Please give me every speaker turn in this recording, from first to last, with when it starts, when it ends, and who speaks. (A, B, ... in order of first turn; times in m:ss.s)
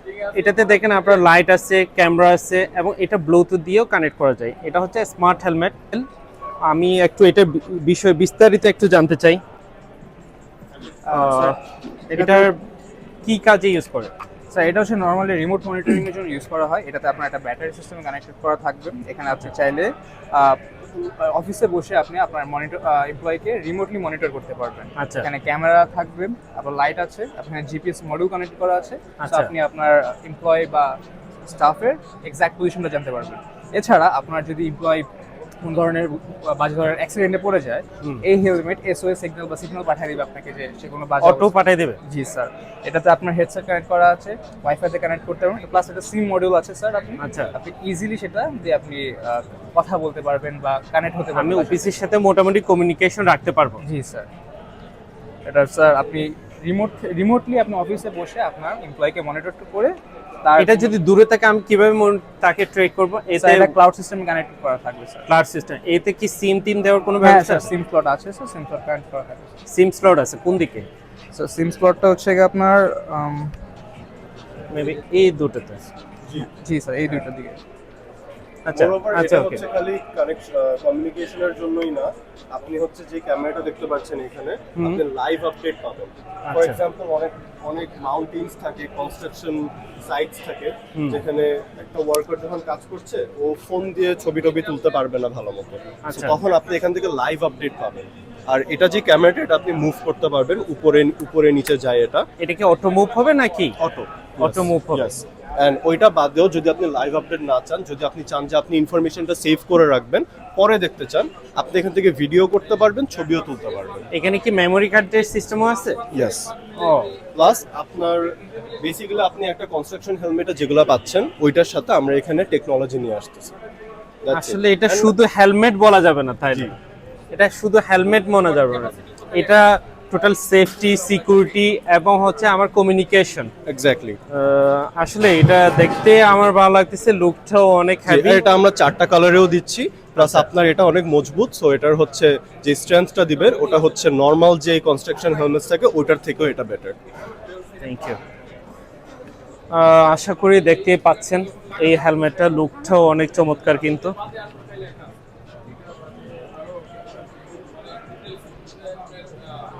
0:00.3-0:06.1 A
0:06.6-0:09.4 A
0:11.1-0:11.6 A
0:11.1-0:11.6 B
0:12.1-0:12.5 B
0:12.1-0:12.6 A
0:13.2-0:14.1 A
0:14.5-0:35.1 B
0:25.0-0:25.3 A
0:29.2-0:29.5 A
0:35.6-0:51.9 B
0:41.2-0:42.0 A
0:47.2-0:47.5 A
0:51.4-0:53.8 A
0:53.8-0:54.3 B
0:55.4-1:00.9 B
1:00.6-1:03.7 A
1:03.3-1:05.3 B
1:05.3-1:07.7 A
1:07.2-1:09.4 B
1:09.7-1:10.9 A
1:11.3-1:13.5 B
1:14.7-1:15.8 A
1:16.4-1:17.6 B
1:18.6-1:19.6 A
1:18.7-1:42.3 C
1:26.5-1:26.8 A
1:36.0-1:36.4 A
1:42.4-1:43.8 A
1:43.8-1:54.1 C
1:44.4-1:45.1 A
1:54.1-1:56.0 A
1:56.1-1:56.5 C
1:56.8-1:57.1 A
1:57.3-2:03.5 C
2:04.2-2:05.1 C
2:04.3-2:06.7 A
2:07.3-2:13.5 A
2:13.7-2:14.2 C
2:14.3-2:18.4 A
2:18.1-2:27.0 C
2:27.8-2:28.2 A
2:29.7-2:34.1 A